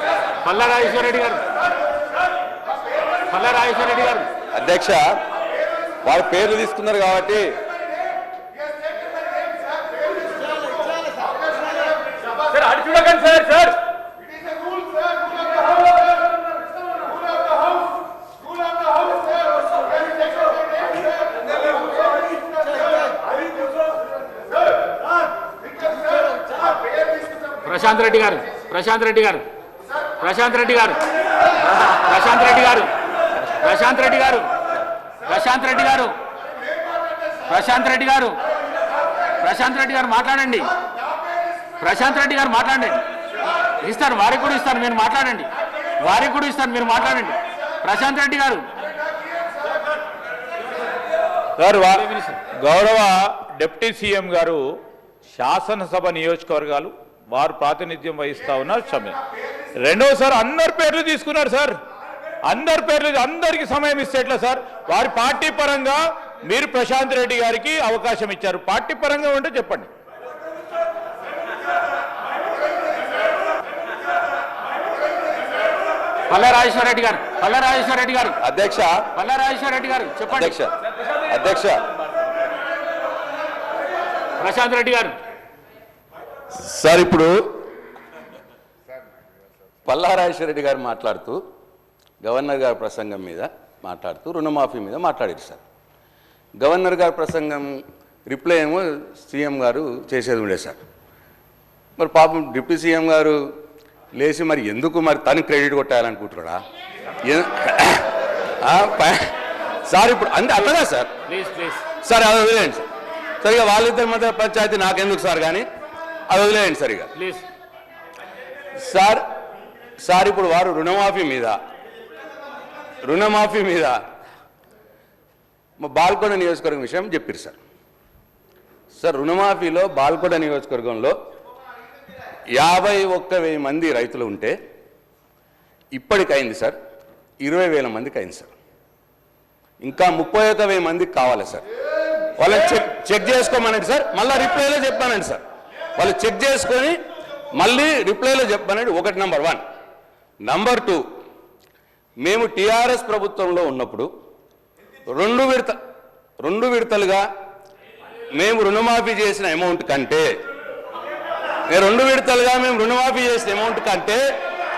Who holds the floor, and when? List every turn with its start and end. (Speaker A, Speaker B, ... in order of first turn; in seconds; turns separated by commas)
Speaker A: 0.4-1.5, Speaker A: 3.2-4.3, Speaker B: 4.5-5.2, Speaker B: 6.0-7.6, Speaker C: 12.5-13.8, Speaker A: 27.6-29.5, Speaker A: 30.1-31.1, Speaker A: 31.9-32.9, Speaker A: 33.4-34.5, Speaker A: 35.2-36.1, Speaker A: 37.4-38.4, Speaker A: 39.4-40.7, Speaker A: 41.8-43.0, Speaker A: 43.8-48.7, Speaker C: 51.6-54.7, Speaker A: 52.1-52.4, Speaker C: 55.3-59.2, Speaker C: 59.8-61.8, Speaker C: 62.5-69.9, Speaker A: 76.3-78.4, Speaker B: 78.4-79.0, Speaker A: 79.1-80.5, Speaker B: 80.3-80.7, Speaker B: 81.2-81.8, Speaker A: 84.4-85.2, Speaker B: 86.5-87.4, Speaker B: 89.8-91.4, Speaker B: 92.2-95.6, Speaker B: 96.6-100.8, Speaker B: 102.0-103.4, Speaker B: 104.2-106.6, Speaker B: 107.2-109.3, Speaker B: 109.9-111.1, Speaker A: 111.3-111.8, Speaker B: 112.0-112.8, Speaker B: 113.4-115.7, Speaker B: 116.3-117.1, Speaker A: 117.2-117.4, Speaker B: 118.8-119.2, Speaker B: 120.0-121.5, Speaker B: 123.0-124.0, Speaker B: 125.8-127.6, Speaker B: 128.9-131.1, Speaker B: 132.5-134.6, Speaker B: 135.9-136.8, Speaker B: 137.4-138.5, Speaker B: 139.8-141.6, Speaker B: 142.4-145.4, Speaker B: 146.0-147.0, Speaker B: 147.6-149.6, Speaker B: 150.4-151.0, Speaker B: 152.2-154.1, Speaker B: 155.1-155.7, Speaker B: 156.4-157.2, Speaker B: 158.3-160.3, Speaker B: 161.7-164.2